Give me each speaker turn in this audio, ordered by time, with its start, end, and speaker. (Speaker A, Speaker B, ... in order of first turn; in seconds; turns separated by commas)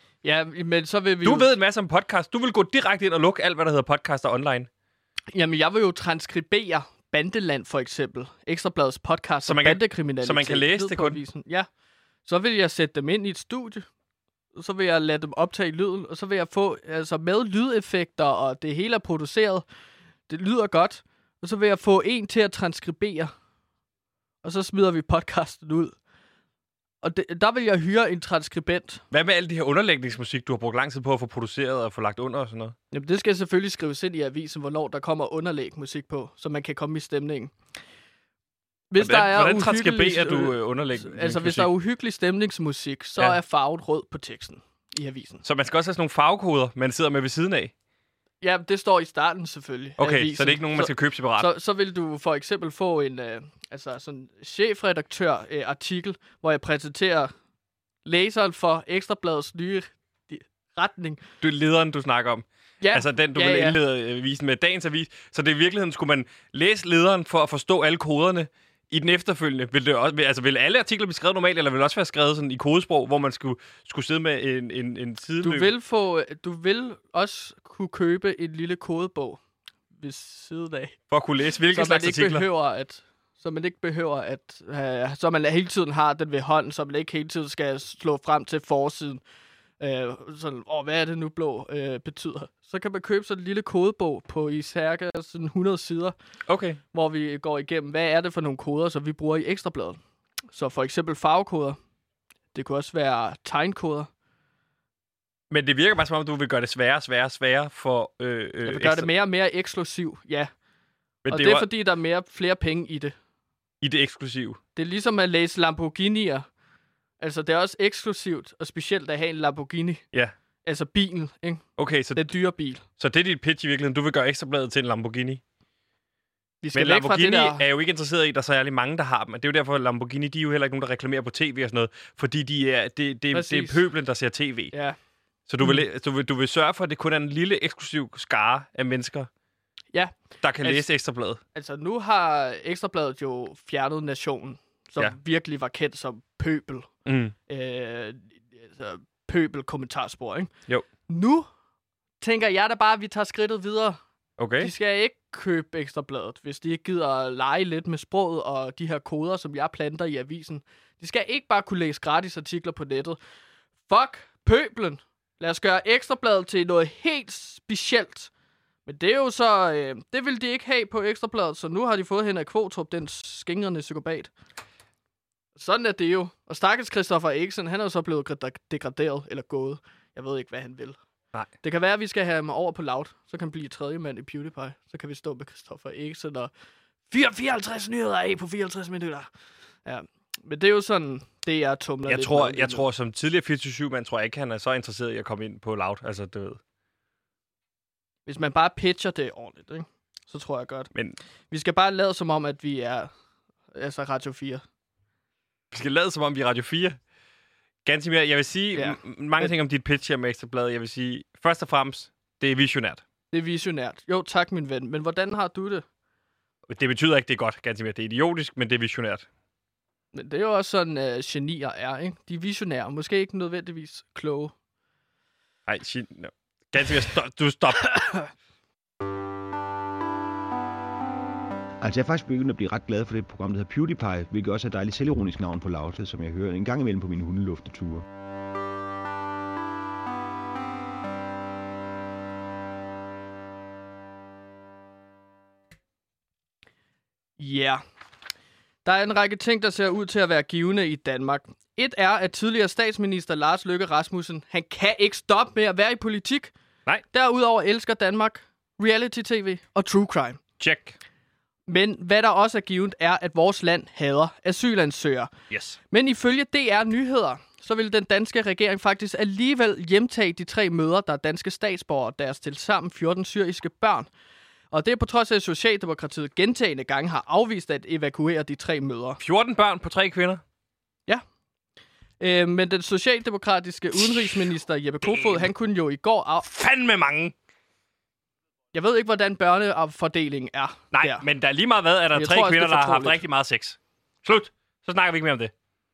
Speaker A: 0.2-1.5, Speaker B: 1.2-4.7, Speaker A: 5.3-11.7, Speaker B: 9.4-11.2, Speaker A: 12.2-13.8, Speaker A: 14.6-19.6, Speaker A: 20.3-23.3, Speaker A: 24.4-25.9, Speaker A: 27.0-29.0, Speaker B: 29.1-32.8, Speaker A: 32.9-37.5, Speaker A: 38.9-45.4, Speaker B: 39.0-41.7, Speaker B: 45.4-47.7, Speaker A: 48.4-57.3, Speaker B: 50.0-51.5, Speaker A: 58.0-61.2, Speaker B: 61.4-75.7, Speaker A: 62.8-63.8, Speaker A: 75.4-79.4, Speaker A: 80.0-81.0, Speaker B: 81.1-82.5, Speaker A: 81.7-89.2, Speaker A: 89.8-96.1, Speaker B: 96.5-96.8, Speaker A: 96.9-100.0, Speaker A: 100.5-101.8, Speaker A: 102.5-104.1, Speaker B: 105.5-109.1, Speaker A: 108.6-110.5, Speaker B: 111.2-111.7, Speaker A: 111.3-113.1, Speaker B: 113.8-114.6, Speaker A: 114.8-116.5, Speaker A: 117.2-120.0, Speaker A: 120.6-122.8, Speaker B: 121.8-122.3, Speaker B: 123.0-125.4, Speaker A: 126.6-127.6, Speaker B: 126.7-134.7, Speaker A: 133.3-133.8, Speaker A: 134.7-135.0, Speaker B: 135.5-139.3, Speaker A: 139.9-140.9, Speaker B: 140.4-141.4, Speaker A: 141.5-146.9, Speaker B: 147.1-147.3, Speaker A: 147.5-150.5, Speaker A: 151.1-151.5, Speaker A: 152.2-154.0, Speaker B: 154.4-154.7, Speaker A: 154.6-163.2, Speaker A: 163.9-168.3, Speaker A: 168.8-174.3, Speaker A: 175.6-181.0, Speaker A: 181.6-186.5, Speaker A: 187.1-189.3, Speaker A: 189.8-192.8, Speaker B: 192.1-196.6, Speaker A: 198.2-200.9, Speaker A: 201.5-203.1, Speaker A: 203.7-204.6, Speaker B: 205.7-207.0, Speaker B: 207.8-213.0, Speaker A: 208.7-209.5, Speaker A: 213.3-215.8, Speaker B: 216.7-219.2, Speaker A: 220.1-224.5, Speaker B: 225.7-228.0, Speaker A: 227.9-228.2, Speaker C: 231.8-238.0, Speaker A: 247.4-247.8, Speaker A: 248.8-256.5, Speaker A: 257.1-260.4, Speaker B: 260.6-261.0, Speaker A: 261.7-265.3, Speaker B: 265.5-265.8, Speaker A: 265.9-274.1, Speaker A: 274.7-279.2, Speaker B: 279.2-280.4, Speaker A: 282.2-286.4, Speaker B: 284.0-284.4, Speaker B: 285.0-285.5, Speaker B: 286.4-287.3, Speaker A: 288.7-291.2, Speaker B: 290.9-295.5, Speaker A: 292.1-293.2